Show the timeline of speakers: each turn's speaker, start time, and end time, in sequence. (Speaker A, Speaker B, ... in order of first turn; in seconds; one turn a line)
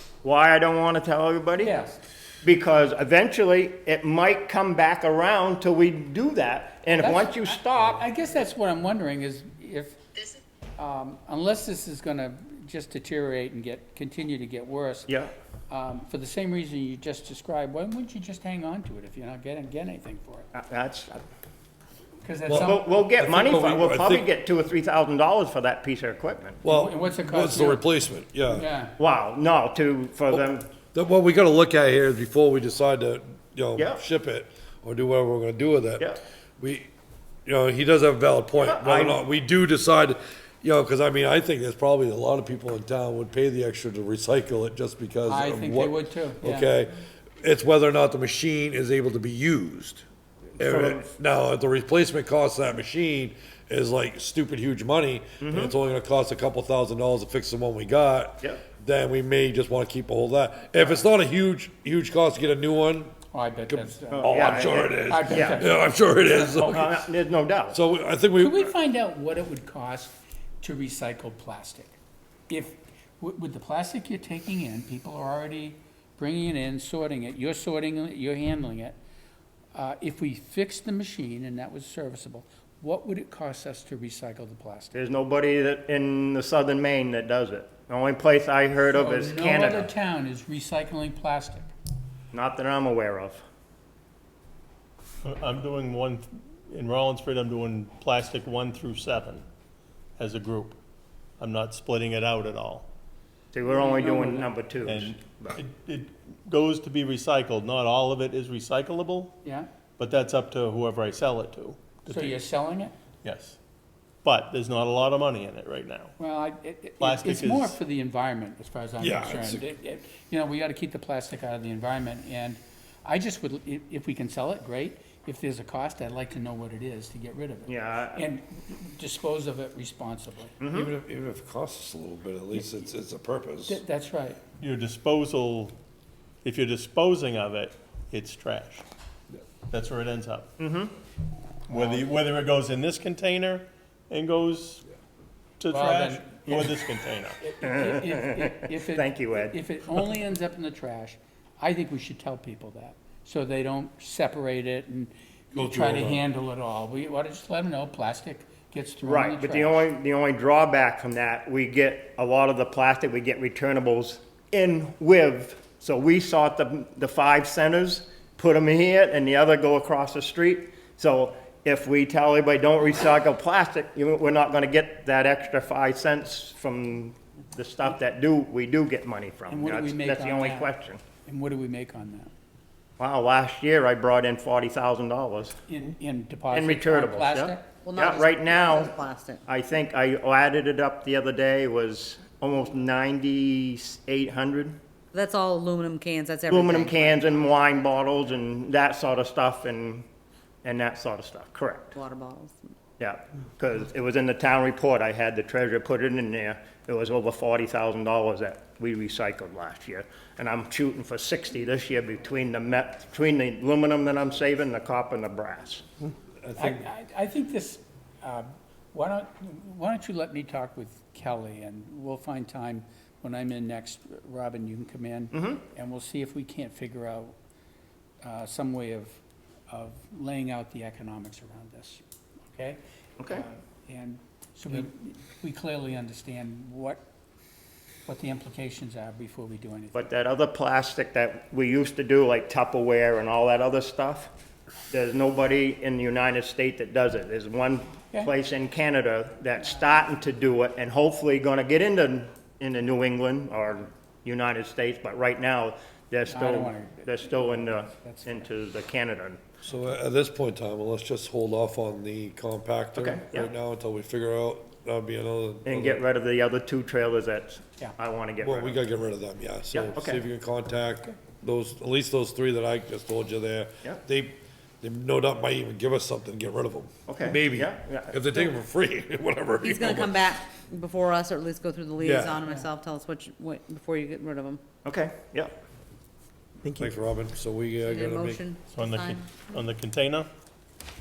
Speaker A: 0.2-1.8
Speaker B: 1.6-2.0
Speaker A: 2.4-8.0
Speaker B: 6.9-10.0
Speaker B: 10.8-15.1
Speaker A: 15.1-15.3
Speaker B: 15.7-20.5
Speaker A: 20.5-21.2
Speaker B: 22.2-22.8
Speaker C: 22.5-24.2
Speaker A: 22.5-26.6
Speaker C: 26.6-28.7
Speaker B: 26.6-27.8
Speaker B: 28.5-28.9
Speaker A: 29.0-30.7
Speaker C: 30.3-36.9
Speaker C: 37.5-50.0
Speaker A: 38.6-39.2
Speaker B: 45.3-46.7
Speaker C: 50.6-66.9
Speaker A: 50.6-51.0
Speaker A: 55.4-55.7
Speaker B: 63.3-65.8
Speaker A: 64.1-65.7
Speaker B: 66.3-66.8
Speaker A: 66.6-67.8
Speaker C: 67.7-68.7
Speaker B: 68.4-71.9
Speaker B: 72.5-79.0
Speaker B: 79.7-85.0
Speaker A: 84.9-89.9
Speaker B: 88.9-91.7
Speaker A: 92.3-93.4
Speaker D: 95.2-99.5
Speaker D: 100.2-100.8
Speaker D: 101.4-102.9
Speaker A: 103.5-105.6
Speaker B: 103.7-104.5
Speaker D: 104.8-109.3
Speaker B: 109.4-109.7
Speaker D: 110.0-112.4
Speaker B: 112.1-112.9
Speaker D: 113.2-113.6
Speaker D: 114.2-116.1
Speaker B: 116.2-130.5
Speaker D: 117.0-117.8
Speaker C: 119.0-119.6
Speaker A: 127.7-128.3
Speaker A: 130.6-130.9
Speaker C: 130.7-133.8
Speaker B: 133.7-134.4
Speaker D: 134.6-135.8
Speaker D: 136.4-138.8
Speaker D: 139.7-140.5
Speaker A: 140.6-140.9
Speaker D: 141.7-144.8
Speaker B: 141.7-142.1
Speaker D: 145.6-147.4
Speaker B: 145.7-146.6
Speaker A: 146.5-146.8
Speaker B: 147.4-159.8
Speaker A: 147.6-149.6
Speaker C: 155.5-156.2
Speaker A: 159.0-181.0
Speaker B: 179.5-182.3
Speaker A: 183.0-185.6
Speaker B: 185.7-187.7
Speaker A: 186.5-188.9
Speaker E: 187.8-189.4
Speaker A: 189.5-194.8
Speaker E: 195.1-198.2
Speaker A: 196.5-200.0
Speaker A: 200.6-201.9
Speaker E: 201.9-202.7
Speaker A: 203.0-215.8
Speaker C: 216.4-216.9
Speaker B: 216.6-227.3
Speaker A: 225.3-225.6
Speaker B: 228.2-232.0
Speaker B: 232.5-237.0
Speaker A: 233.2-233.4
Speaker B: 238.1-240.0
Speaker A: 239.9-244.3
Speaker A: 244.9-259.5
Speaker B: 256.2-258.5
Speaker C: 259.6-266.0
Speaker A: 262.9-263.5
Speaker A: 265.6-268.8
Speaker C: 268.4-280.2
Speaker A: 269.7-270.2
Speaker A: 277.1-278.2
Speaker E: 279.6-284.6
Speaker C: 282.0-282.4
Speaker A: 284.8-285.6
Speaker B: 286.6-286.9
Speaker C: 286.7-288.4
Speaker E: 287.8-289.5
Speaker D: 288.7-290.3